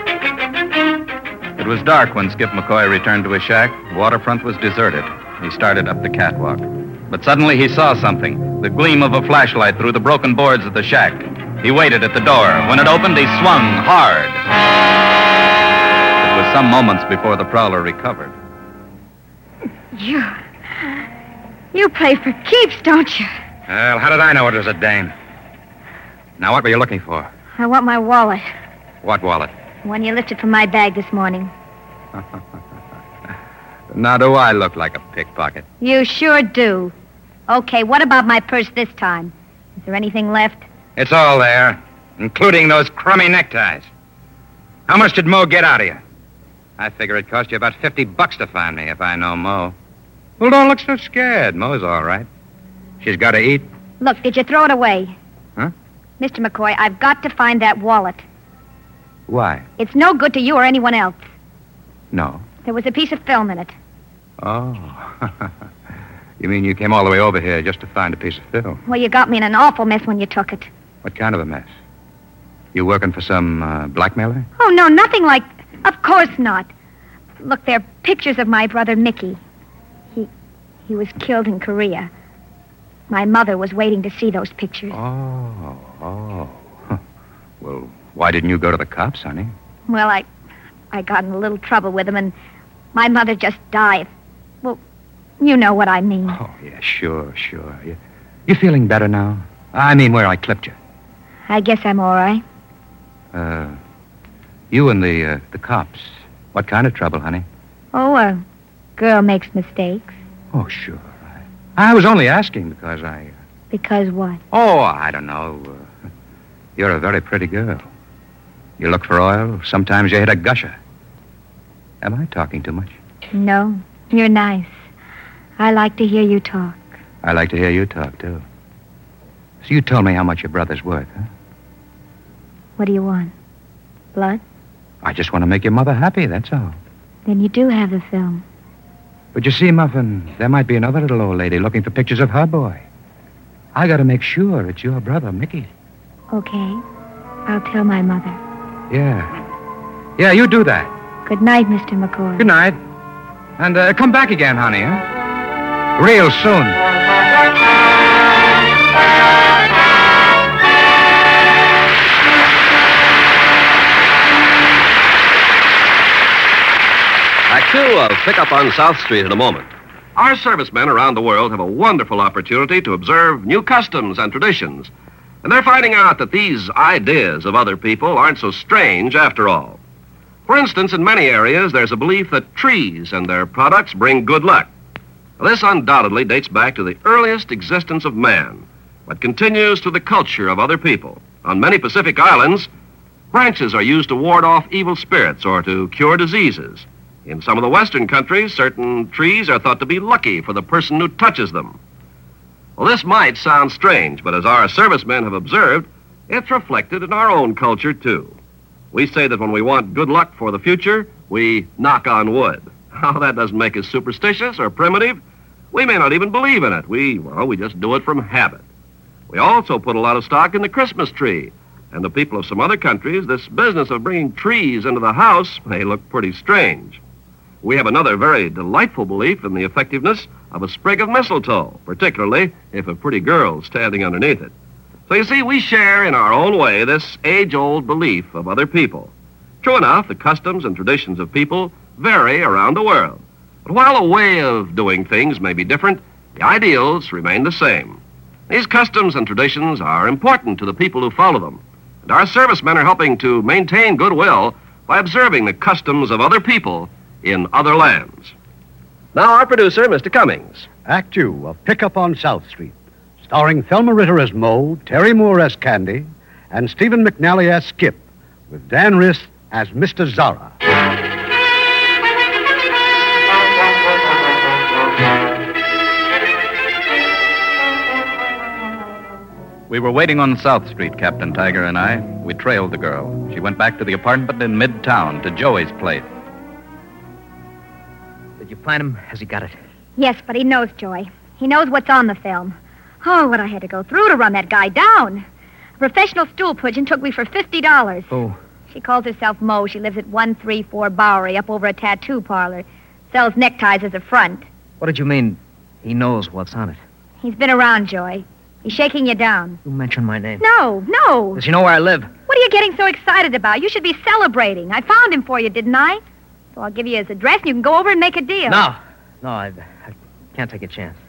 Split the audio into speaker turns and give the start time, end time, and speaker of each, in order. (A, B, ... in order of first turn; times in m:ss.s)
0:01.6-0:14.4 A
0:16.2-0:18.3 A
0:19.9-0:20.4 B
0:21.7-0:23.3 B
0:23.7-0:25.1 C
0:26.4-0:27.3 C
0:27.6-0:28.4 B
0:29.0-0:29.5 C
0:29.8-0:31.5 B
0:33.9-0:35.6 C
0:35.8-0:36.9 B
0:37.5-0:40.6 B
0:41.0-0:43.9 C
0:44.9-0:46.0 C
0:46.8-0:49.7 C
0:50.4-0:52.3 C
0:53.0-0:53.6 C
0:54.0-0:55.1 B
0:56.2-0:58.2 B
0:59.3-0:59.6 C
0:59.8-1:01.2 B
1:02.1-1:02.4 C
1:02.6-1:03.7 B
1:04.4-1:05.5 C
1:06.4-1:08.8 C
1:08.8-1:10.7 B
1:11.0-1:11.7 C
1:12.7-1:14.4 C
1:14.6-1:16.7 B
1:17.4-1:19.4 B
1:20.9-1:22.1 B
1:23.1-1:25.0 B
1:24.9-1:27.0 C
1:27.6-1:29.5 C
1:29.9-1:30.2 B
1:30.9-1:32.3 B
1:32.9-1:34.1 B
1:35.4-1:36.4 B
1:36.3-1:40.7 C
1:41.5-1:42.4 B
1:43.3-1:43.8 C
1:44.7-1:47.4 C
1:47.9-1:48.4 B
1:49.0-1:50.1 B
1:50.5-1:51.2 C
1:51.8-1:53.3 C
1:53.7-1:54.4 B
1:54.5-1:55.8 C
1:56.8-1:57.8 C
1:58.8-2:00.8 C
2:02.0-2:02.9 C
2:03.3-2:04.7 B
2:05.6-2:06.8 B
2:07.2-2:08.4 C
2:09.6-2:11.2 C
2:12.8-2:13.3 B
2:14.1-2:14.4 B
2:15.0-2:16.8 C
2:17.2-2:18.4 B
2:19.3-2:22.8 C
2:23.7-2:25.7 C
2:26.3-2:26.8 B
2:27.5-2:28.4 B
2:28.9-2:29.3 C
2:30.2-2:30.9 C
2:31.2-2:32.4 B
2:32.4-2:32.8 C
2:33.6-2:35.0 C
2:36.0-2:36.8 C
2:47.5-2:54.9 D
2:55.4-2:59.8 D
3:00.5-3:04.7 D
3:05.4-3:12.7 D
3:13.3-3:21.8 D
3:22.8-3:28.4 D
3:28.9-3:35.2 D
3:35.7-3:38.6 D
3:39.3-3:47.0 D
3:47.6-3:54.5 D
3:55.1-4:18.3 D
4:19.1-4:20.7 D
4:20.8-4:30.5 E
4:39.7-4:46.1 A
4:48.4-4:49.6 F
4:50.0-4:55.2 B
4:55.8-4:58.1 B
4:58.1-4:58.4 F
4:58.7-5:04.4 B
5:04.8-5:06.8 F
5:07.2-5:09.6 B
5:09.6-5:10.4 F
5:10.4-5:11.4 B
5:11.3-5:12.1 F
5:12.3-5:16.0 B
5:16.5-5:18.6 B
5:18.5-5:21.0 F